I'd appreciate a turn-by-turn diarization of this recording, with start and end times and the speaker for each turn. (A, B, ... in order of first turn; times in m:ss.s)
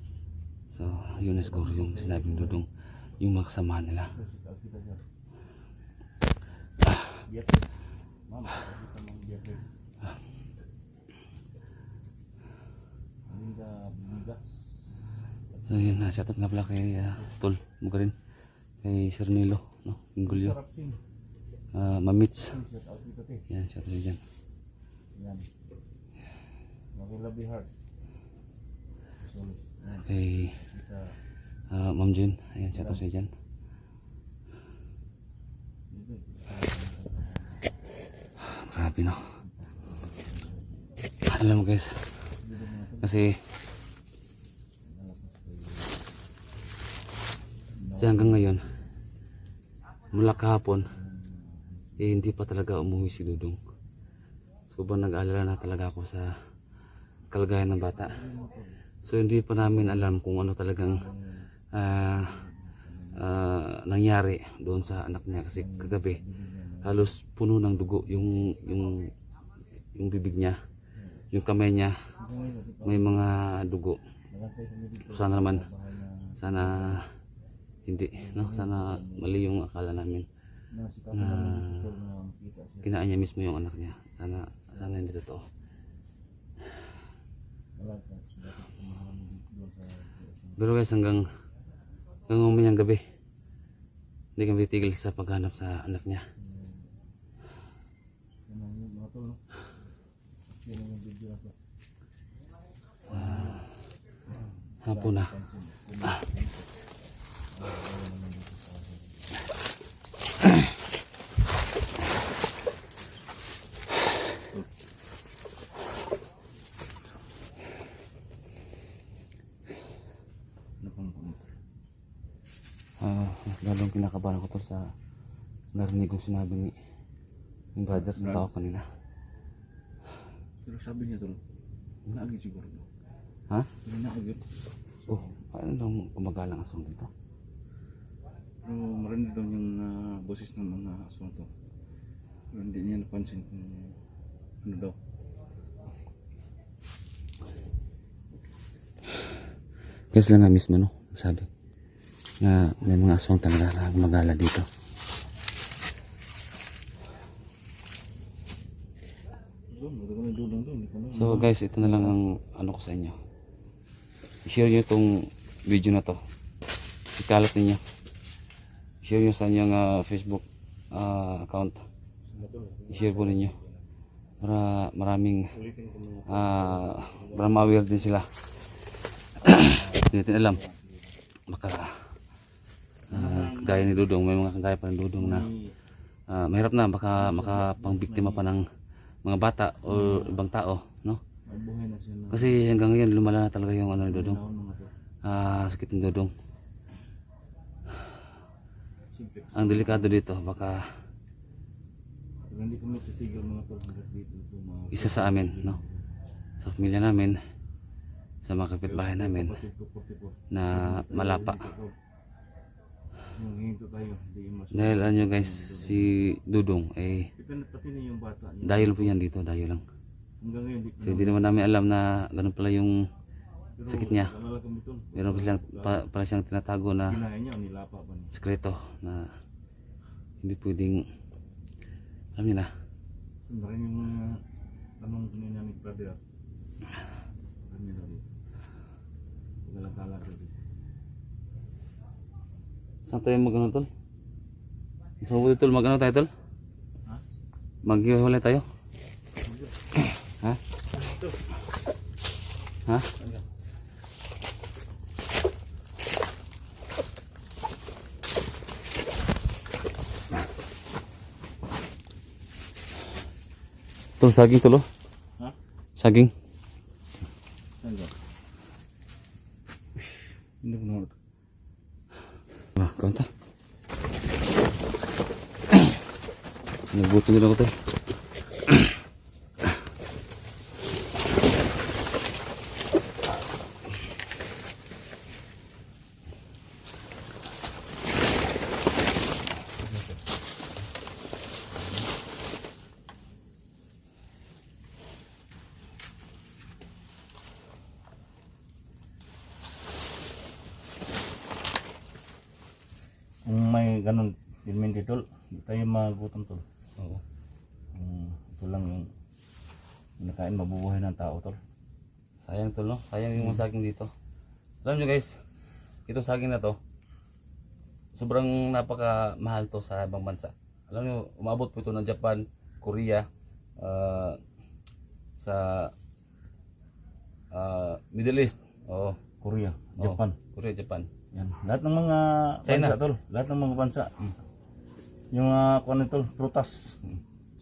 0:00.7-0:02.7 A
0:01.2-0:02.6 B
0:03.2-0:04.1 A
0:04.1-0:05.0 B
0:07.2-0:07.7 B
0:08.3-0:09.6 B
0:13.3-0:14.6 B
0:15.6-0:16.0 B
0:15.7-0:18.1 A
0:18.8-0:20.5 A
0:20.2-0:21.0 B
0:21.7-0:22.6 A
0:22.4-0:23.4 B
0:23.5-0:24.2 A
0:25.2-0:25.5 B
0:27.0-0:27.7 B
0:29.2-0:31.1 B
0:30.0-0:30.6 A
0:31.7-0:33.3 A
0:32.7-0:33.0 B
0:35.9-0:37.7 B
0:38.5-0:39.2 A
0:39.4-0:40.8 B
0:41.2-0:42.1 A
0:42.4-0:43.2 B
0:43.0-0:43.4 A
0:44.8-0:46.0 B
0:47.8-0:48.6 B
0:48.0-0:48.6 A
0:50.1-0:50.9 A
0:50.9-0:52.1 B
0:52.0-0:53.6 A
0:54.7-0:56.3 A
0:57.3-0:58.2 A
0:58.0-0:58.7 B
0:59.0-1:01.0 A
0:59.6-1:00.0 B
1:00.8-1:01.5 B
1:01.7-1:02.3 A
1:02.2-1:03.2 B
1:03.2-1:06.2 A
1:05.5-1:07.1 B
1:06.8-1:09.1 A
1:10.0-1:10.6 A
1:11.3-1:12.1 A
1:12.2-1:13.2 B
1:12.8-1:14.0 A
1:14.3-1:17.0 B
1:15.0-1:15.6 A
1:16.4-1:17.1 A
1:17.9-1:20.3 A
1:18.2-1:19.3 B
1:20.7-1:22.9 B
1:21.1-1:21.8 A
1:22.8-1:25.4 A
1:27.8-1:30.6 B
1:30.6-1:31.2 A
1:32.3-1:33.0 A
1:34.4-1:36.2 A
1:36.4-1:36.9 B
1:38.5-1:39.4 B
1:40.6-1:41.5 B
1:43.1-1:43.7 B
1:43.1-1:43.7 A
1:44.3-1:46.7 B
1:44.8-1:45.3 A
1:47.5-1:49.2 B
2:00.8-2:01.5 B
2:03.0-2:04.9 A
2:05.7-2:06.7 A
2:07.8-2:08.8 A
2:07.9-2:08.4 B
2:10.6-2:11.4 B
2:12.1-2:12.8 B
2:13.8-2:14.4 B
2:15.0-2:15.3 B
2:15.1-2:17.1 A
2:18.6-2:21.5 B
2:22.5-2:24.0 B
2:24.6-2:25.0 B
2:30.1-2:31.5 A
2:32.4-2:34.7 A
2:39.7-2:42.2 B
2:41.1-2:43.2 A
2:44.4-2:46.2 A
2:47.2-2:47.8 A
2:49.0-2:51.8 A
2:52.2-2:53.8 B
2:52.9-2:53.6 A
2:54.4-2:55.5 A
2:55.5-2:58.0 B
2:56.3-2:58.3 A
2:59.4-3:00.6 A
2:59.5-3:01.1 B
3:01.5-3:02.0 A
3:03.1-3:04.1 B
3:03.1-3:05.5 A
3:05.2-3:05.7 B
3:06.3-3:08.6 A
3:07.1-3:08.5 B
3:09.2-3:11.2 A
3:09.8-3:10.4 B
3:11.5-3:12.6 B
3:12.3-3:14.4 A
3:14.0-3:14.9 B
3:15.2-3:16.3 A
3:19.1-3:20.2 B
3:19.5-3:20.8 A
3:22.5-3:26.0 B
3:24.9-3:25.8 A
3:26.6-3:27.4 A
3:28.4-3:29.5 A
3:28.8-3:31.9 B
3:30.5-3:31.7 A
3:33.3-3:36.1 B
3:34.7-3:37.3 A
3:37.4-3:39.2 B
3:38.6-3:39.8 A
3:40.4-3:41.4 B
3:41.0-3:43.1 A
3:43.8-3:46.0 B
3:43.9-3:44.3 A
3:45.1-3:47.2 A
3:47.0-3:48.3 B
3:48.3-3:49.3 A
3:50.4-3:51.1 A
3:52.4-3:52.7 A
3:53.5-3:54.4 B
3:55.0-3:56.2 B
3:57.6-3:58.2 B
3:59.6-4:00.5 B
4:03.1-4:03.9 A
4:05.2-4:06.3 A
4:07.8-4:08.6 A
4:09.4-4:09.7 B
4:11.0-4:11.4 B
4:24.2-4:24.9 A
4:26.0-4:26.3 A
4:27.8-4:28.1 B
4:30.6-4:31.1 B
4:32.8-4:33.3 A
4:36.9-4:37.7 A
4:49.8-4:50.2 B
5:03.4-5:06.6 B
5:07.9-5:09.1 B
5:10.2-5:11.6 B
5:12.4-5:14.1 A
5:13.4-5:13.6 B
5:14.8-5:15.4 A
5:16.1-5:16.8 A
5:18.2-5:23.3 A
5:23.8-5:24.4 A
5:25.4-5:25.9 A
5:27.5-5:29.2 A
5:29.4-5:30.4 B
5:30.0-5:31.1 A
5:31.3-5:34.3 B
5:32.6-5:33.0 A
5:35.3-5:37.0 B